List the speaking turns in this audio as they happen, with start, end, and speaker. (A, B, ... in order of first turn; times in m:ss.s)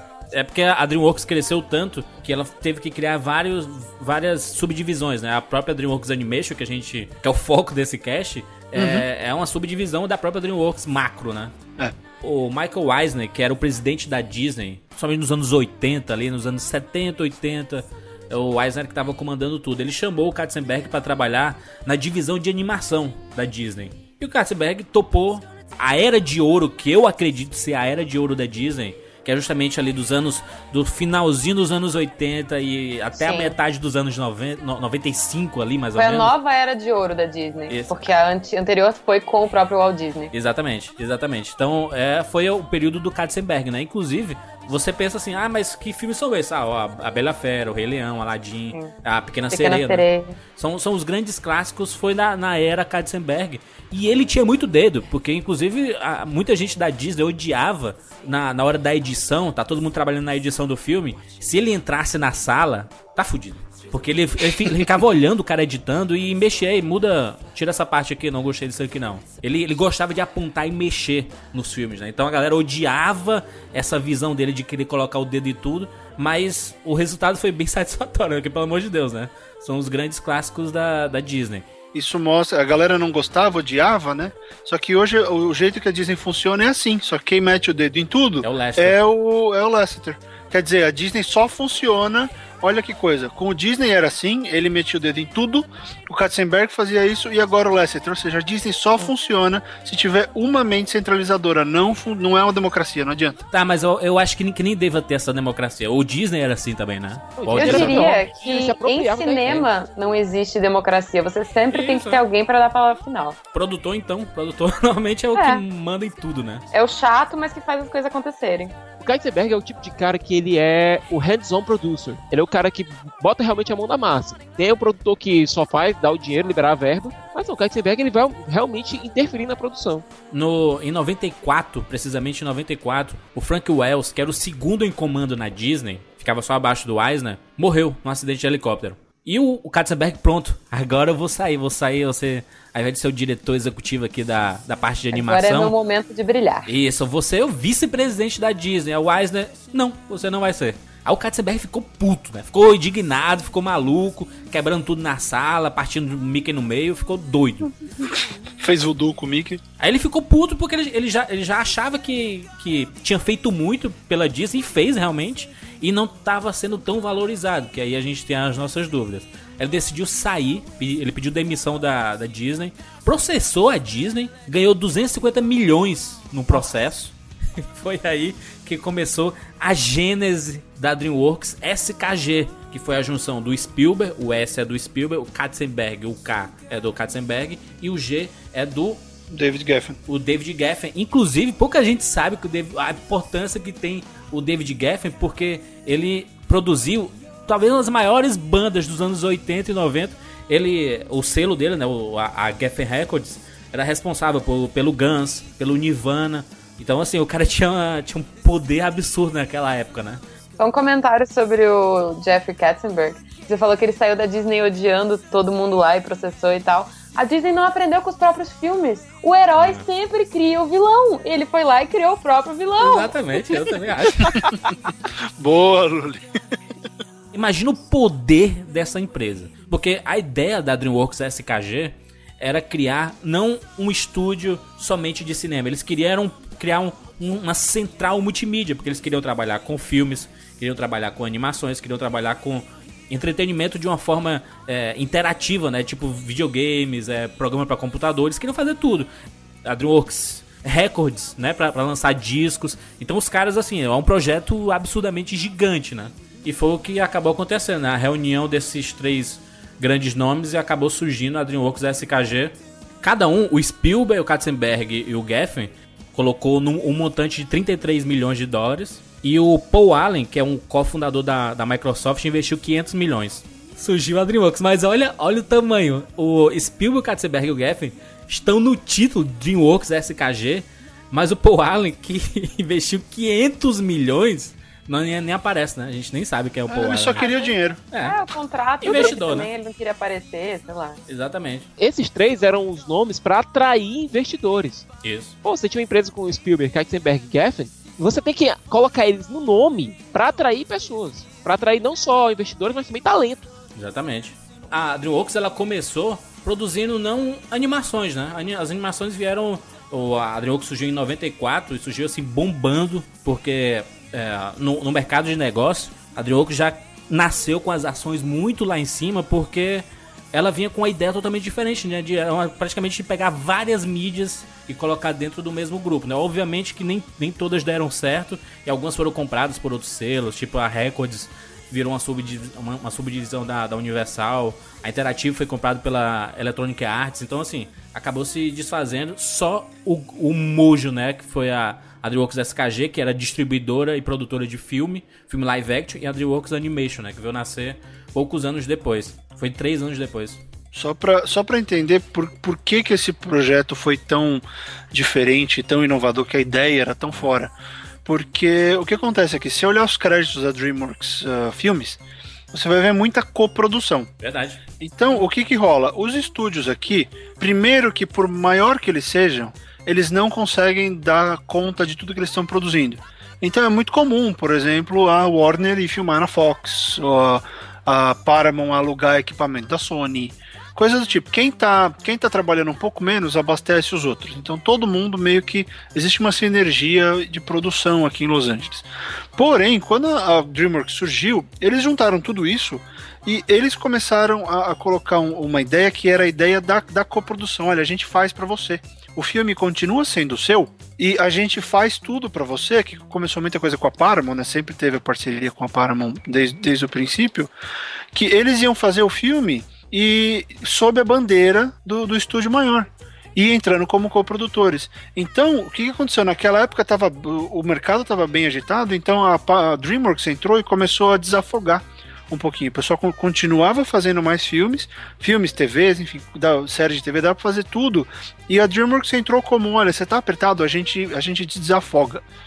0:00.3-0:11.5 A
0:08.8-0:09.0 B
0:12.2-0:36.3 A
0:33.2-0:33.6 C
0:36.0-0:40.3 C
0:40.3-1:21.7 A
0:49.5-0:50.4 C
1:21.9-1:43.4 B
1:28.4-1:29.0 A
1:43.5-1:48.2 A
1:47.4-1:49.7 D
1:47.6-1:53.4 C
1:51.7-1:52.2 A
1:53.5-1:56.7 A
1:55.4-1:55.6 C
1:56.7-1:58.7 C
1:59.0-2:10.1 D
2:10.3-2:25.7 A
2:25.1-2:26.7 C
2:26.7-2:37.7 A
2:38.6-2:39.6 B
2:39.8-2:57.1 A
2:57.7-3:09.0 A
3:09.3-3:10.0 B
3:10.1-3:30.2 A
3:30.6-3:43.6 C
3:39.6-3:39.8 A
3:42.8-3:44.5 A
3:44.4-3:44.8 B
3:45.4-3:46.3 B
3:47.3-4:09.1 A
4:09.6-4:47.3 A
4:46.7-4:47.8 B
4:47.2-4:51.0 C
4:47.9-4:48.2 A
4:48.8-4:49.5 A
4:51.1-4:51.7 A
4:51.8-4:54.9 D
4:55.0-4:55.4 A
4:55.4-5:03.5 D
5:03.8-5:50.4 A
5:50.7-5:57.5 B
5:58.0-6:02.0 B
6:02.5-6:04.1 B
6:04.2-6:04.6 A
6:04.8-6:47.5 B
6:48.1-7:12.2 B